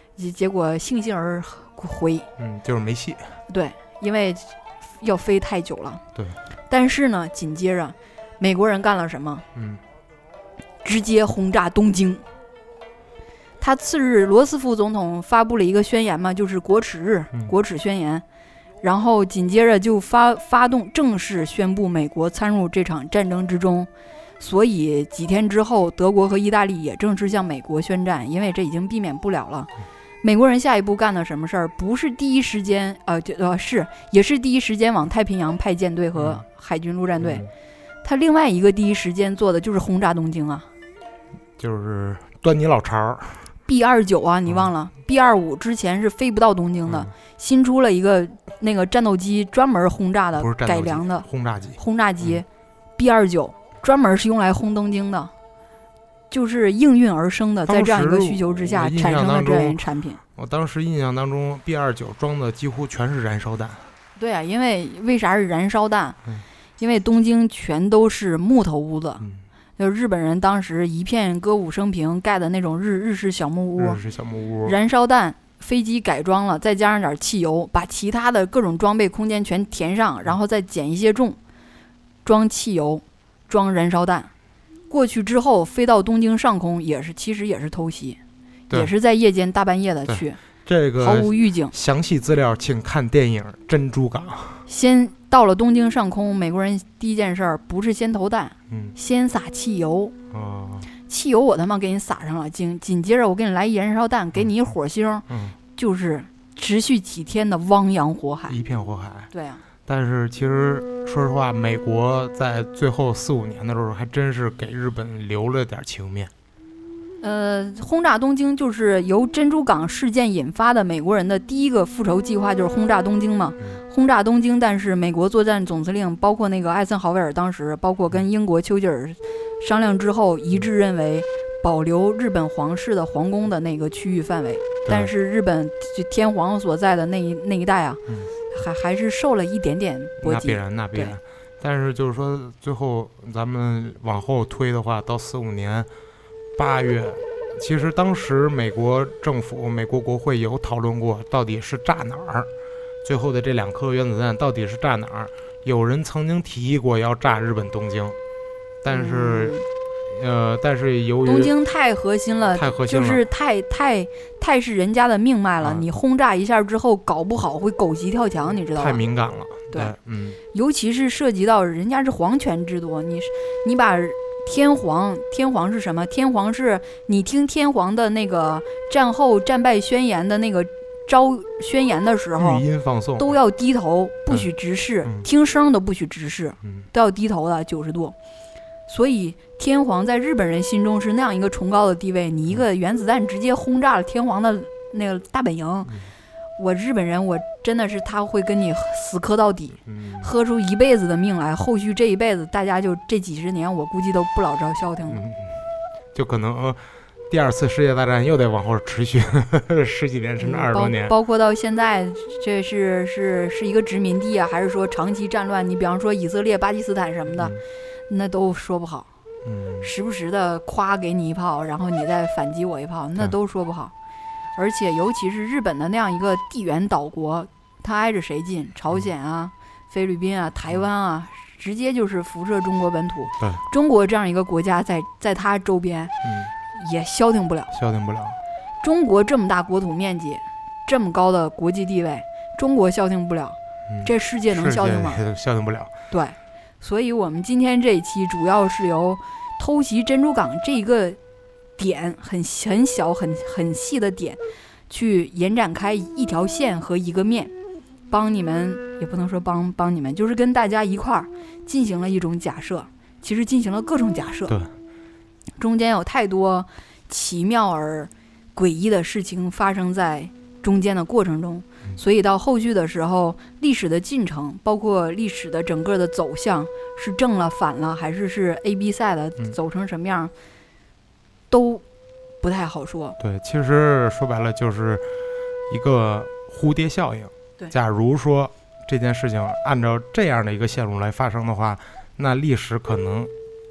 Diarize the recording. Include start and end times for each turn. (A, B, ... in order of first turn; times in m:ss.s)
0:00.2-0:02.3 A
0:02.4-0:03.4 B
0:03.5-0:06.0 A
0:06.7-0:09.4 A
0:09.5-0:09.8 B
0:10.8-0:12.2 A
0:13.6-0:18.2 A
0:18.8-0:23.9 A
0:24.4-0:29.7 A
0:30.2-0:37.5 A
0:36.2-0:36.4 B
0:37.2-0:37.5 B
0:38.0-0:40.7 A
0:41.6-0:43.5 B
0:43.6-0:51.2 A
0:50.4-0:52.4 B
0:51.8-0:52.4 A
0:53.0-0:55.3 A
0:56.3-1:00.2 A
0:57.6-0:59.8 B
1:00.4-1:03.9 B
1:04.2-1:06.2 A
1:06.8-1:09.2 A
1:09.8-1:14.0 A
1:13.8-1:14.8 B
1:14.6-1:21.4 A
1:22.2-1:24.3 A
1:24.9-1:28.2 A
1:28.7-1:30.4 A
1:30.1-1:34.6 B
1:31.0-1:31.7 A
1:34.7-1:40.1 A
1:38.7-1:38.9 B
1:40.3-1:40.9 B
1:41.1-1:48.6 A
1:45.3-1:45.6 B
1:48.5-1:49.3 B
1:49.3-1:49.6 A
1:49.9-1:56.3 B
1:57.2-2:21.2 A
2:14.8-2:15.1 B
2:20.2-2:25.9 B
2:26.6-2:32.5 B
2:33.0-2:38.2 B
2:38.8-2:39.6 B
2:38.9-2:39.6 A
2:40.1-2:41.5 B
2:41.2-2:49.0 A
2:42.5-2:43.2 B
2:45.6-2:45.9 B
2:48.8-2:50.4 B
2:50.5-3:02.6 A
3:02.4-3:03.3 B
3:03.2-3:08.1 A
3:08.9-3:15.9 A
3:16.6-3:25.2 A
3:19.8-3:20.3 B
3:25.1-3:25.6 B
3:26.1-3:31.1 B
3:30.4-3:39.1 A
3:39.4-3:39.9 B
3:39.8-3:43.9 A
3:44.6-3:56.1 A
3:56.2-3:56.5 B
3:56.7-3:57.7 A
3:57.7-3:58.4 B
3:58.8-4:05.2 A
4:03.9-4:05.9 B
4:06.1-4:11.2 A
4:11.8-4:17.5 A
4:18.1-4:24.5 A
4:25.6-4:40.3 A
4:41.5-4:41.8 A
4:42.4-4:43.2 A
4:43.2-4:45.0 B
4:45.7-4:53.3 B